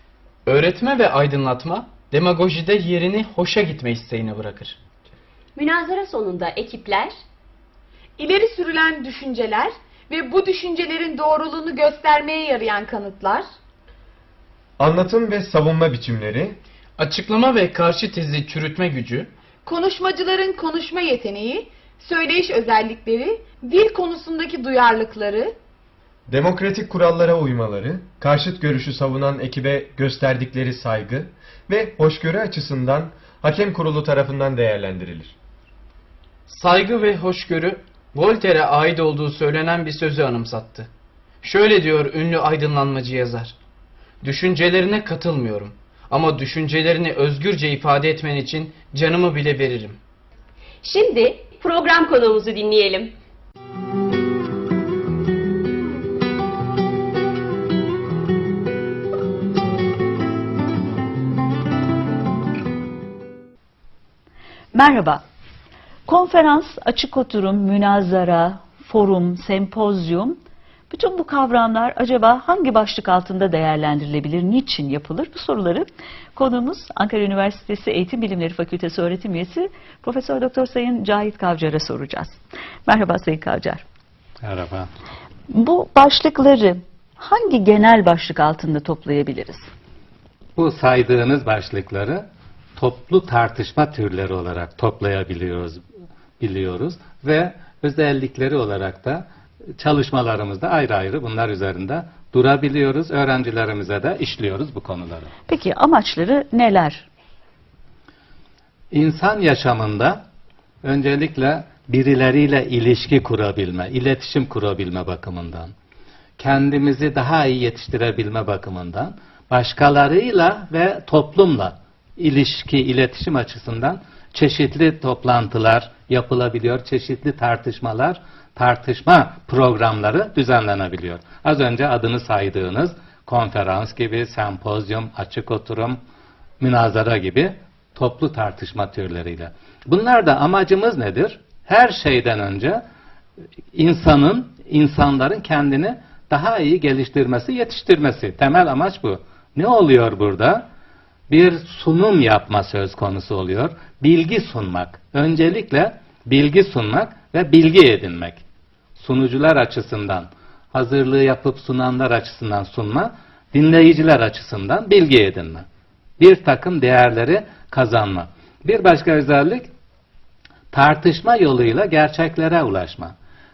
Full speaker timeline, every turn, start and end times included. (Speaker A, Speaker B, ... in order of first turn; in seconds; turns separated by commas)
Speaker A: 0.5-4.8, Speaker B: 5.5-7.1, Speaker C: 8.2-13.4, Speaker D: 14.8-16.6, Speaker A: 17.0-19.3, Speaker C: 19.6-25.5, Speaker D: 26.3-35.3, Speaker A: 36.5-40.9, Speaker A: 41.4-43.6, Speaker A: 44.2-50.0, Speaker B: 50.8-53.1, Speaker E: 64.7-65.2, Speaker E: 66.0-70.4, Speaker E: 70.9-83.8, Speaker F: 84.4-84.9, Speaker E: 85.5-89.7, Speaker F: 90.5-92.2, Speaker F: 92.8-95.8, Speaker F: 96.4-99.2, Speaker F: 99.8-105.3, Speaker E: 105.5-107.1, Speaker F: 108.9-110.2, Speaker F: 110.8-115.7, Speaker F: 116.4-136.0, Speaker F: 136.6-142.8, Speaker F: 143.7-150.6, Speaker F: 151.3-158.4, Speaker F: 158.9-165.6, Speaker F: 166.2-169.7, Speaker F: 170.7-173.1